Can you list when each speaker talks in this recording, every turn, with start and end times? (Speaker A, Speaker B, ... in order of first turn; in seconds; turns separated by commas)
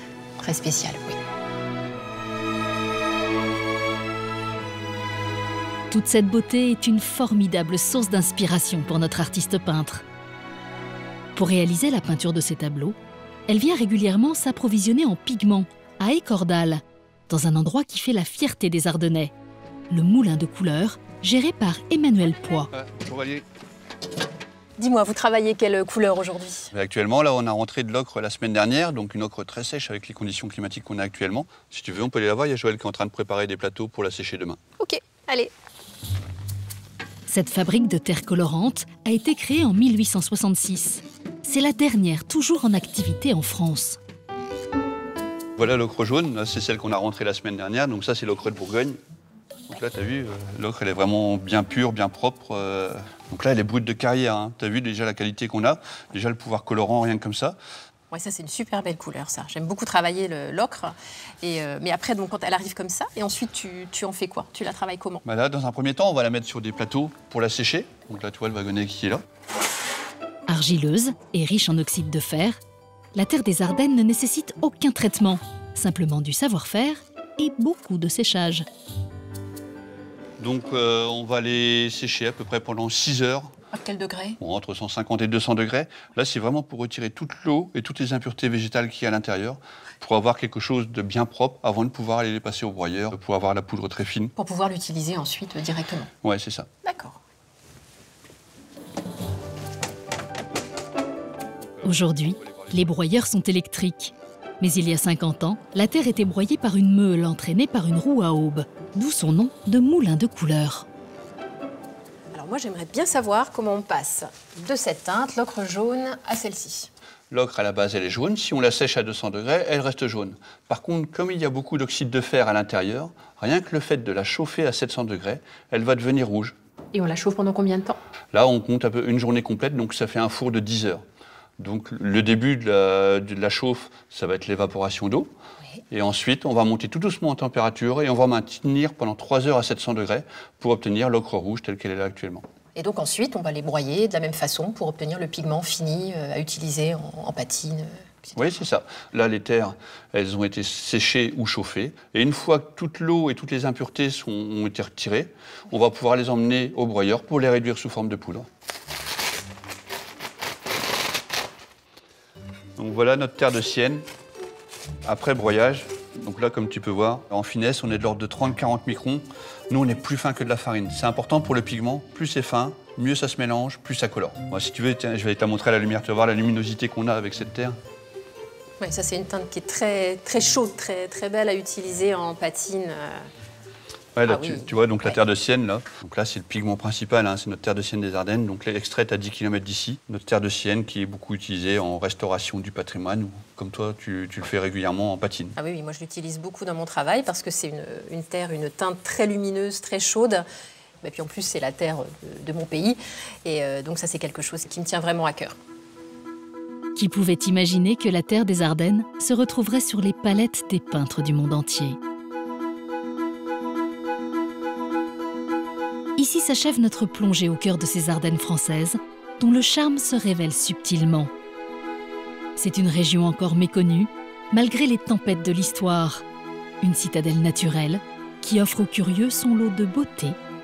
Speaker A: 0.4-1.2, Speaker B: 5.9-10.0, Speaker B: 11.3-12.9, Speaker B: 13.5-19.3, Speaker B: 19.9-22.7, Speaker C: 22.7-23.4, Speaker A: 24.8-26.7, Speaker C: 26.7-34.6, Speaker A: 34.8-35.5, Speaker B: 37.3-44.0, Speaker C: 45.6-49.0, Speaker C: 49.7-57.6, Speaker A: 58.1-65.2, Speaker C: 65.2-69.2, Speaker B: 70.5-72.6, Speaker B: 73.1-78.7, Speaker C: 80.4-83.5, Speaker A: 83.7-84.4, Speaker C: 84.4-94.3, Speaker A: 94.3-96.1, Speaker C: 96.2-96.7, Speaker A: 96.8-97.2, Speaker B: 101.8-110.8, Speaker A: 112.3-116.9, Speaker C: 117.3-126.5, Speaker A: 126.9-128.0, Speaker C: 128.3-131.0, Speaker C: 131.6-135.3, Speaker C: 135.9-142.4, Speaker A: 142.7-148.6, Speaker C: 148.3-158.5, Speaker C: 162.8-164.0, Speaker C: 165.0-177.8, Speaker A: 178.8-183.3, Speaker C: 184.2-195.6, Speaker A: 184.2-185.2, Speaker A: 195.6-200.4, Speaker A: 201.0-205.6, Speaker B: 206.9-212.0, Speaker B: 216.2-221.3, Speaker B: 222.6-226.2, Speaker B: 226.8-230.4